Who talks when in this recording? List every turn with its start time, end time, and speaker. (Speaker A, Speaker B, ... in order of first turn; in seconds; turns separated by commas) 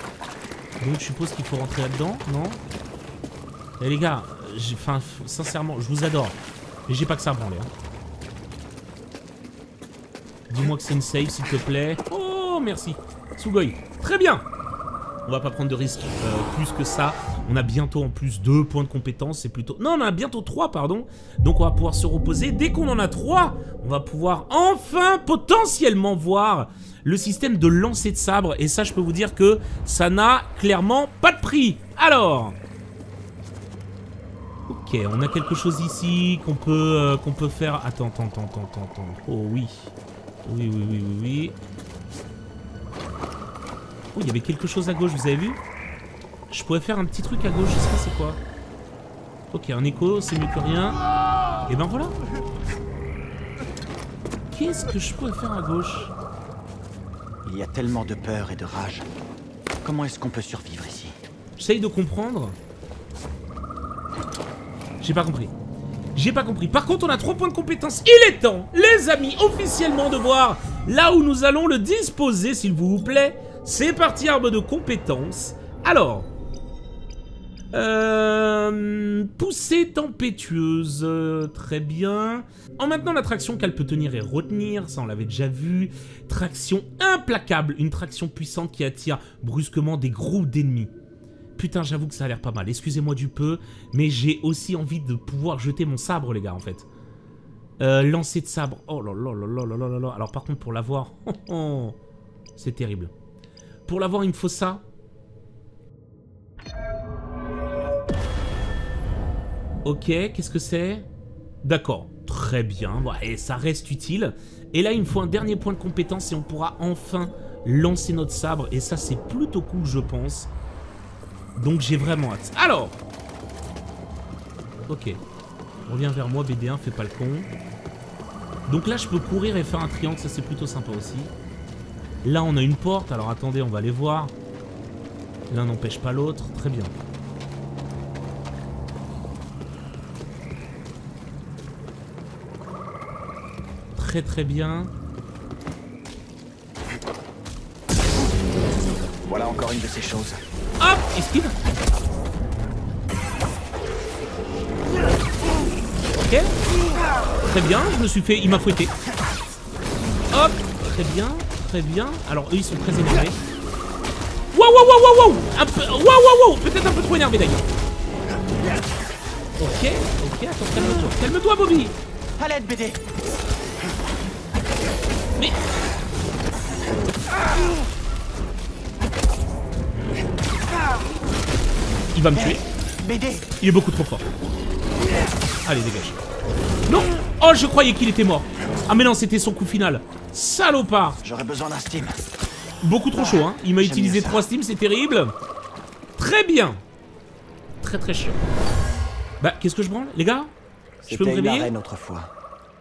Speaker A: 0.8-2.6, Speaker A: 3.8-6.4, Speaker A: 6.9-7.7, Speaker A: 10.5-14.4, Speaker A: 15.3-32.6, Speaker A: 34.7-39.9, Speaker A: 40.5-41.5, Speaker A: 44.1-45.6, Speaker A: 46.5-48.4, Speaker A: 49.5-51.0, Speaker A: 51.6-52.1, Speaker A: 54.5-56.1, Speaker B: 57.4-59.1, Speaker B: 59.8-61.2, Speaker A: 61.6-62.6, Speaker A: 65.0-65.5, Speaker A: 66.2-76.3, Speaker A: 77.7-90.9, Speaker A: 91.6-96.9, Speaker A: 97.8-102.0, Speaker A: 102.6-103.1, Speaker A: 103.9-104.8, Speaker A: 109.8-111.1, Speaker A: 111.6-120.5, Speaker A: 121.6-123.0, Speaker A: 124.9-125.2, Speaker A: 125.9-127.5, Speaker A: 128.7-131.3, Speaker A: 132.2-134.3, Speaker A: 135.5-136.9, Speaker A: 144.0-144.9, Speaker B: 149.3-150.4, Speaker A: 150.8-151.6, Speaker A: 156.2-156.5, Speaker A: 157.5-158.9, Speaker A: 160.3-163.4, Speaker A: 164.5-167.7, Speaker A: 169.6-171.9, Speaker B: 172.4-173.0, Speaker A: 182.1-182.6, Speaker B: 182.4-183.5, Speaker A: 183.6-184.3, Speaker A: 185.7-186.2, Speaker A: 186.9-191.2, Speaker B: 191.2-192.2, Speaker A: 192.8-195.3, Speaker B: 193.2-194.5, Speaker A: 196.2-196.8, Speaker A: 197.8-198.4, Speaker A: 199.4-200.5, Speaker B: 201.0-202.3, Speaker A: 201.1-201.7